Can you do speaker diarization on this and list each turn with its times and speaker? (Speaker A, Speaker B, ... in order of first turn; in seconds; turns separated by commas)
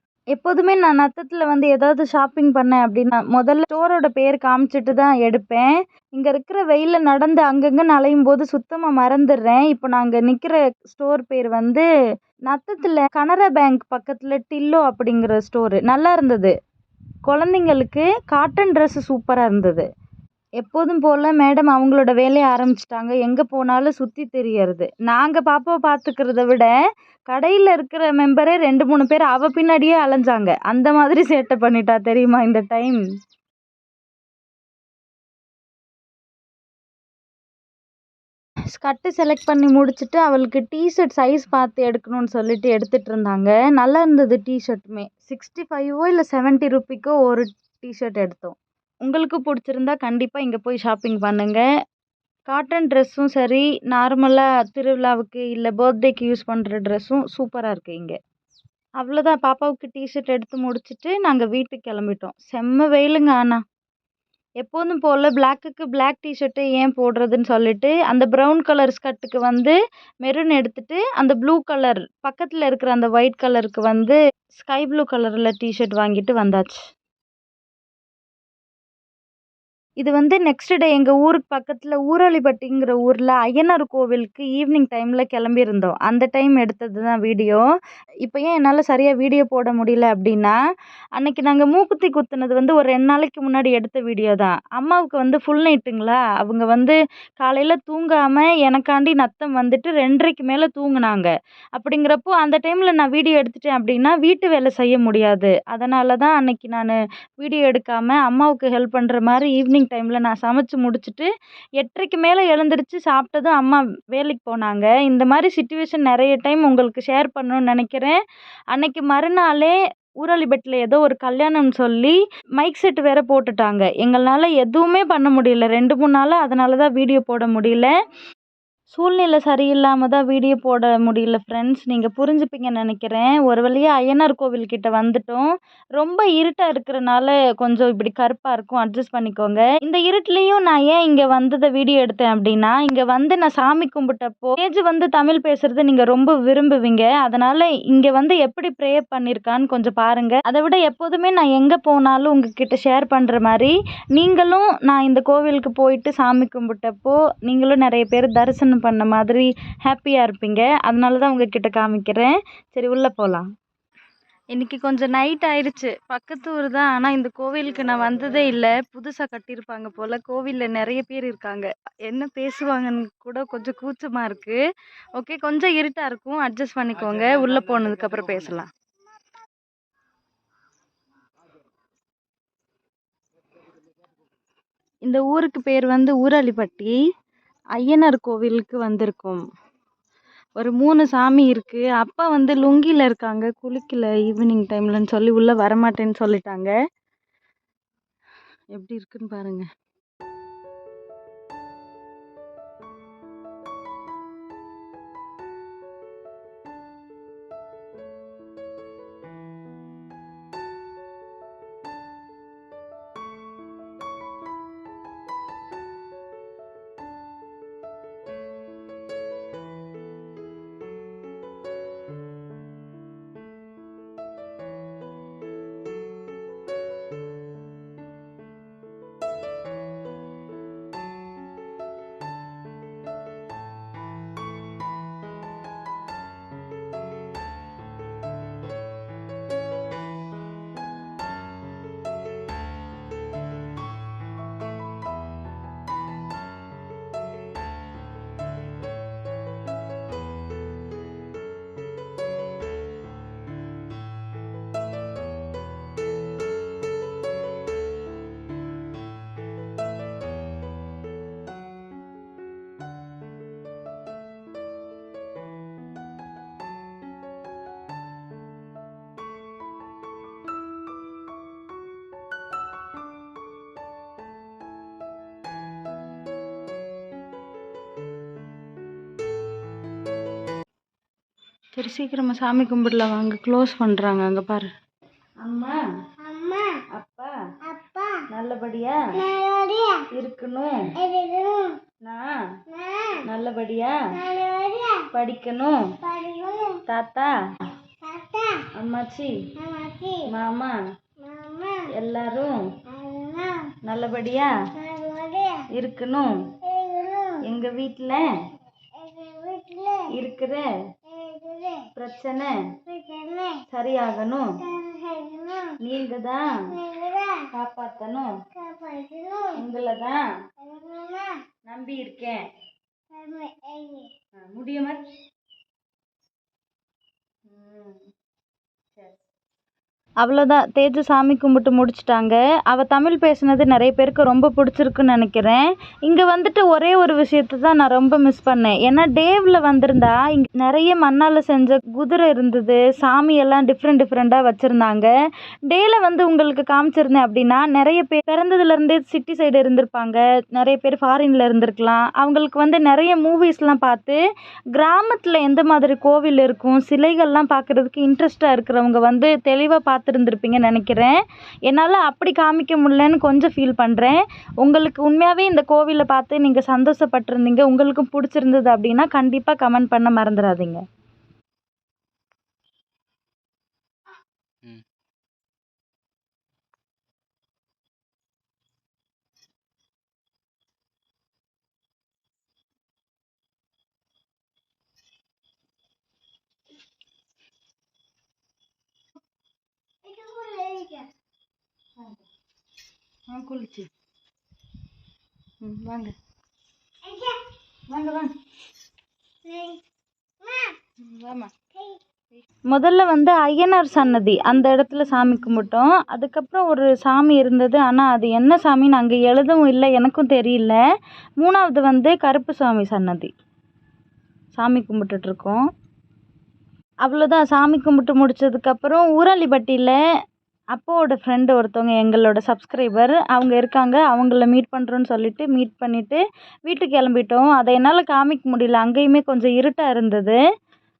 Speaker A: 0.3-11.8, Speaker A: 12.5-16.5, Speaker A: 17.2-19.9, Speaker A: 20.6-26.8, Speaker A: 27.3-33.0, Speaker A: 38.7-51.6, Speaker A: 52.5-58.2, Speaker A: 59.0-63.6, Speaker A: 64.6-76.8, Speaker A: 80.0-87.7, Speaker A: 88.2-90.6, Speaker A: 91.2-118.2, Speaker A: 118.7-127.9, Speaker A: 128.9-163.5, Speaker A: 164.5-174.6, Speaker A: 175.1-178.7, Speaker A: 185.0-186.9, Speaker A: 187.7-189.4, Speaker A: 190.6-196.7, Speaker A: 198.7-199.7, Speaker A: 281.7-284.7, Speaker A: 285.4-286.1, Speaker B: 286.2-286.8, Speaker A: 286.9-287.3, Speaker B: 287.7-288.2, Speaker A: 288.3-289.3, Speaker B: 289.3-290.1, Speaker A: 290.1-290.9, Speaker B: 291.0-291.8, Speaker A: 292.0-292.6, Speaker B: 292.7-293.2, Speaker A: 293.2-294.3, Speaker B: 294.2-295.1, Speaker A: 295.1-296.0, Speaker B: 296.1-296.8, Speaker A: 296.9-297.7, Speaker B: 298.0-298.7, Speaker A: 298.7-299.6, Speaker B: 299.6-300.2, Speaker A: 300.2-300.8, Speaker B: 301.2-301.8, Speaker A: 301.9-302.8, Speaker B: 302.9-303.7, Speaker A: 303.8-304.5, Speaker B: 304.8-305.7, Speaker A: 305.7-306.6, Speaker B: 306.7-307.4, Speaker A: 307.4-308.2, Speaker B: 309.0-310.1, Speaker A: 310.1-310.7, Speaker B: 311.1-311.9, Speaker A: 311.9-312.6, Speaker B: 312.9-313.6, Speaker A: 313.7-314.7, Speaker B: 314.7-315.8, Speaker A: 315.8-316.8, Speaker B: 316.8-317.4, Speaker A: 317.5-318.3, Speaker B: 318.6-319.5, Speaker A: 319.5-320.2, Speaker B: 320.6-321.4, Speaker A: 321.6-322.4, Speaker B: 323.1-324.1, Speaker A: 324.4-325.0, Speaker A: 327.5-328.1, Speaker A: 330.2-345.1, Speaker A: 345.7-354.2, Speaker A: 354.7-370.8, Speaker B: 390.0-391.1, Speaker A: 393.3-393.9, Speaker A: 395.6-396.1, Speaker A: 397.9-398.3, Speaker B: 399.4-399.8, Speaker B: 400.4-400.8, Speaker A: 401.0-401.5, Speaker A: 402.7-410.8, Speaker A: 411.4-413.3, Speaker A: 414.5-415.6, Speaker A: 417.0-420.0, Speaker A: 420.7-430.4